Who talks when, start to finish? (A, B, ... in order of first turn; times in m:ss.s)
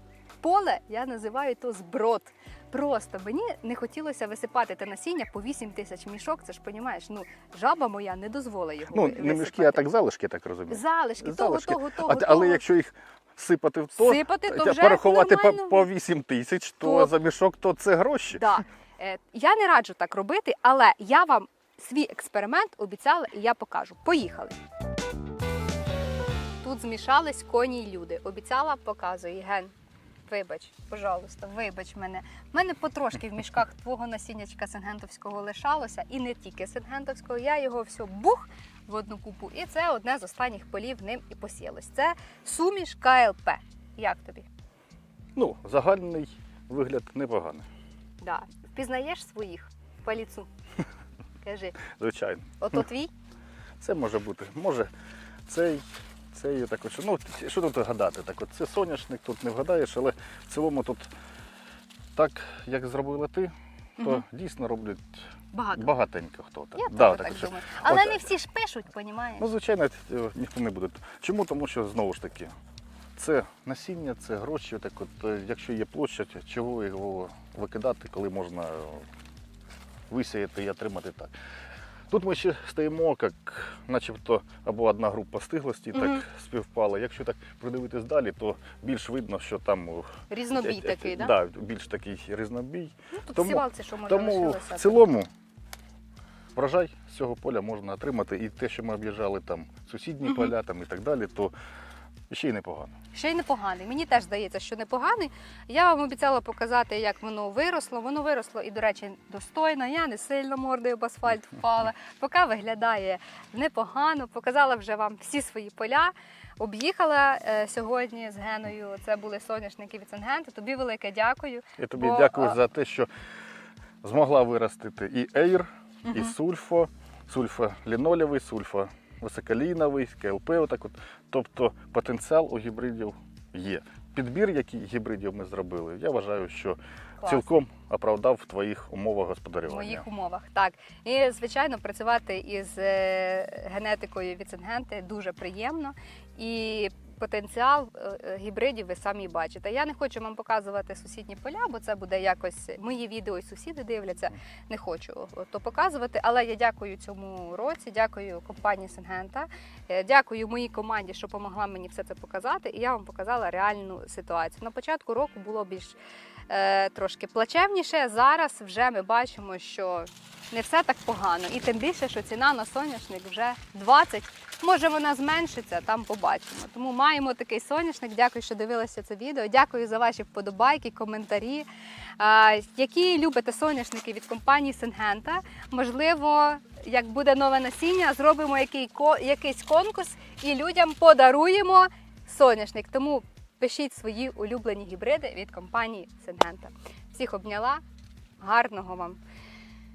0:00.4-0:09.9 A
0:08.9-0:18.4 B
0:10.7-0:12.6 A
0:14.0-0:15.9 A
0:16.8-0:17.1 A
0:18.3-0:24.6 A
0:26.6-0:29.7 A
0:30.3-0:44.5 A
0:45.4-0:47.6 B
0:48.2-0:50.5 A
0:51.4-0:51.8 A
0:51.9-0:52.8 B
0:52.6-0:53.1 A
0:53.8-0:54.9 B
0:55.5-1:01.1 B
1:02.1-1:08.2 B
1:04.0-1:04.2 A
1:05.5-1:05.9 A
1:06.8-1:09.5 A
1:09.4-1:12.5 B
1:13.2-1:19.1 B
1:20.1-1:21.3 B
1:22.1-1:35.3 B
1:25.9-1:26.2 A
1:30.3-1:31.4 A
1:33.1-1:35.1 A
1:36.5-1:41.5 B
1:42.3-1:42.9 B
1:43.1-2:02.6 A
2:01.8-2:03.1 B
2:04.0-2:20.1 B
2:06.1-2:06.3 A
2:17.2-2:17.5 A
2:19.7-2:46.0 A
2:46.5-3:01.6 A
3:02.2-3:17.8 A
3:18.4-3:19.2 A